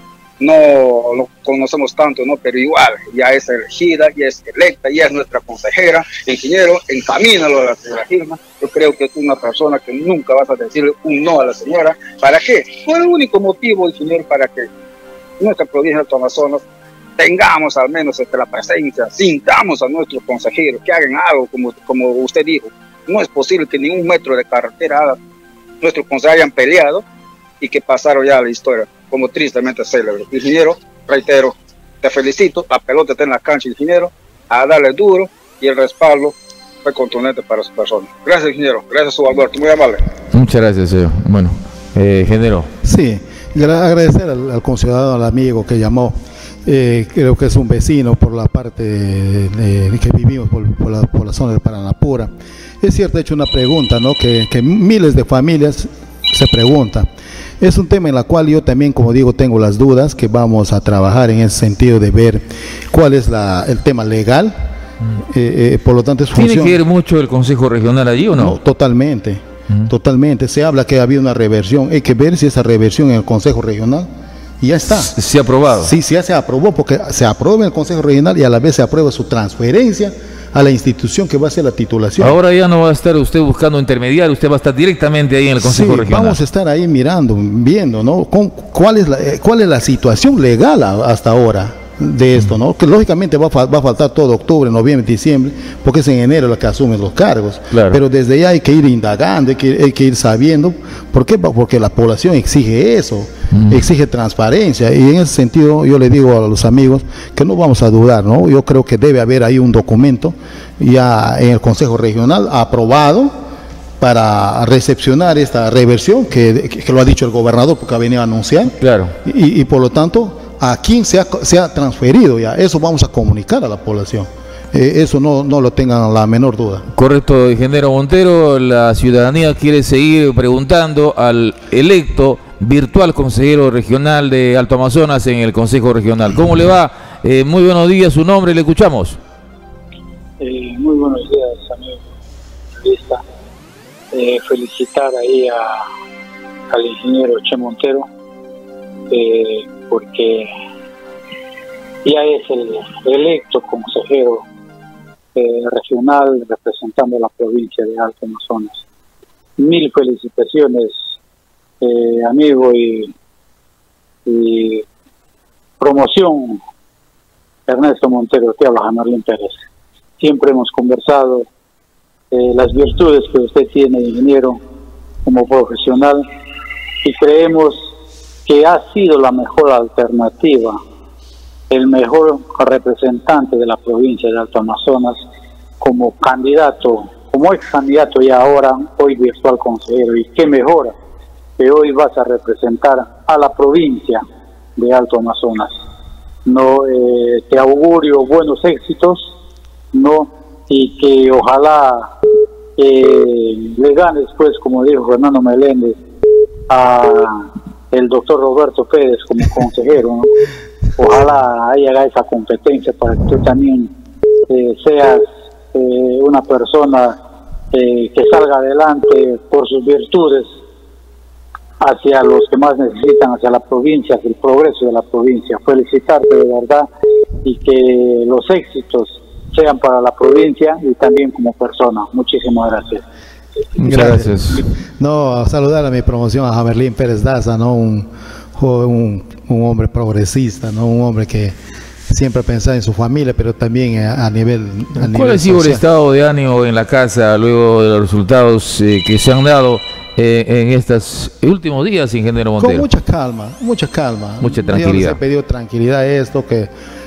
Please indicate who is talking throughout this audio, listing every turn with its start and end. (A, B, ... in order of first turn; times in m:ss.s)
0:00.4-0:14.7 A
0:15.4-0:16.6 A
0:17.2-0:25.2 A
0:25.8-0:27.0 A
0:27.6-0:40.0 A
0:40.3-0:42.7 B
0:42.8-0:57.1 C
0:57.6-1:04.7 C
1:05.2-1:06.8 C
1:06.3-1:08.6 B
1:08.3-1:14.1 C
1:14.6-1:15.1 C
1:15.0-1:15.9 B
1:15.8-1:22.4 C
1:22.2-1:26.4 B
1:25.6-1:53.3 C
1:37.7-1:38.0 B
1:43.5-1:43.8 B
1:54.0-2:06.9 C
1:58.8-1:59.1 B
2:06.9-2:19.2 B
2:20.4-2:22.0 D
2:22.8-2:23.2 D
2:24.1-2:25.7 D
2:26.7-2:28.1 D
2:29.1-2:30.5 D
2:32.0-2:34.4 D
2:35.3-2:38.8 D
2:39.6-2:40.9 D
2:41.8-2:43.1 D
2:44.2-2:44.8 D
2:45.8-2:46.6 D
2:47.7-2:49.6 D
2:50.2-2:51.5 D
2:52.3-2:54.6 D
2:55.2-2:56.2 D
2:57.0-2:57.9 D
2:58.4-3:00.8 D
3:01.7-3:05.2 D
3:05.8-3:10.9 D
3:11.6-3:14.2 D
3:14.8-3:15.8 D
3:16.4-3:19.3 D
3:19.9-3:22.1 D
3:22.8-3:26.0 D
3:26.7-3:30.3 D
3:31.0-3:33.9 D
3:34.5-3:37.2 D
3:37.7-3:40.6 D
3:41.8-3:46.9 D
3:47.4-3:53.0 D
3:53.8-3:54.6 B
3:53.8-3:54.3 C
3:55.0-4:01.6 C
4:02.1-4:05.8 C
4:05.0-4:12.8 B
4:12.6-4:16.7 C
4:14.4-4:15.2 B